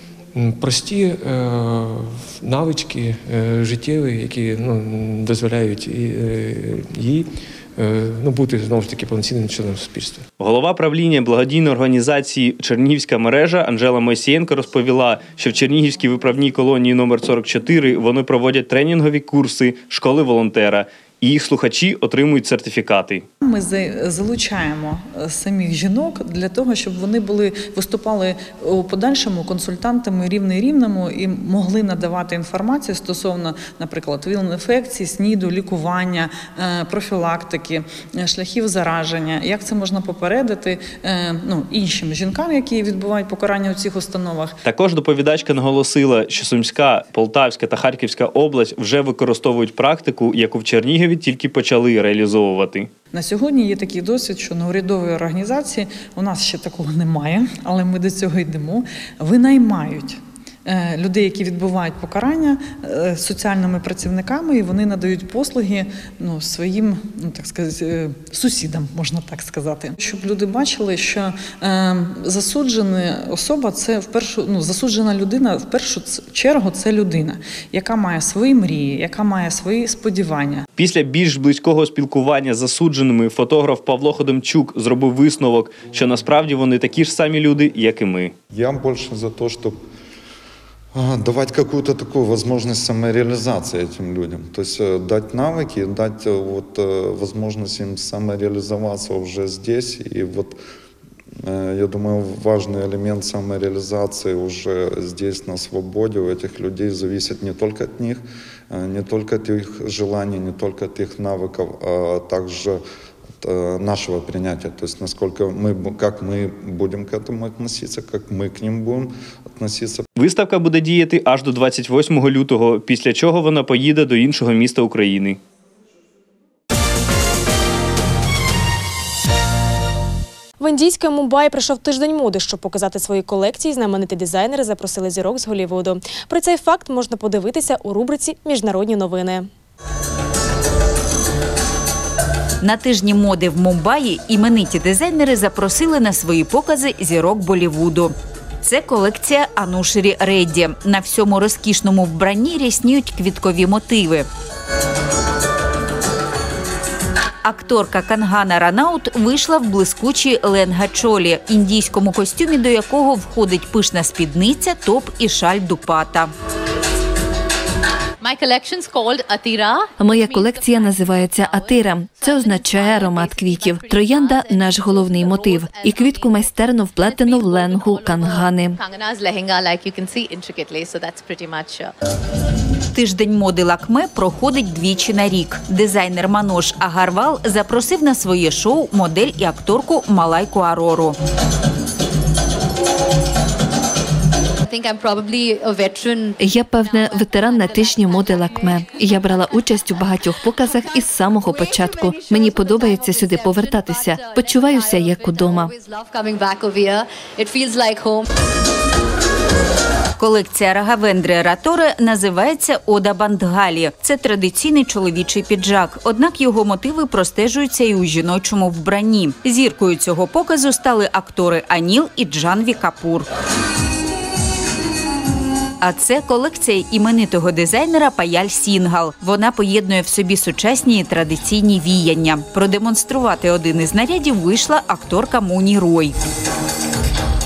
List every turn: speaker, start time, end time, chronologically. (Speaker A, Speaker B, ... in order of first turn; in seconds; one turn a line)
Speaker A: 0.3-10.3
Speaker B: 10.4-23.2
Speaker C: 23.4-44.6
Speaker B: 44.6-52.9
Speaker C: 53.1-80.7
Speaker B: 80.8-88.3
Speaker D: 88.5-89.8
Speaker D: 91.0-100.6
Speaker D: 101.4-112.8
Speaker D: 113.4-120.0
Speaker B: 120.2-125.4
Speaker E: 130.6-139.5
Speaker F: 142.6-154.3
Speaker F: 157.4-166.3
Speaker G: 168.2-181.9
Speaker H: 170.0-178.8
Speaker F: 182.9-191.2
Speaker G: 194.7-200.1
Speaker H: 196.4-205.7
Speaker G: 200.7-208.3
Speaker F: 210.2-223.3
Speaker F: 225.8-236.2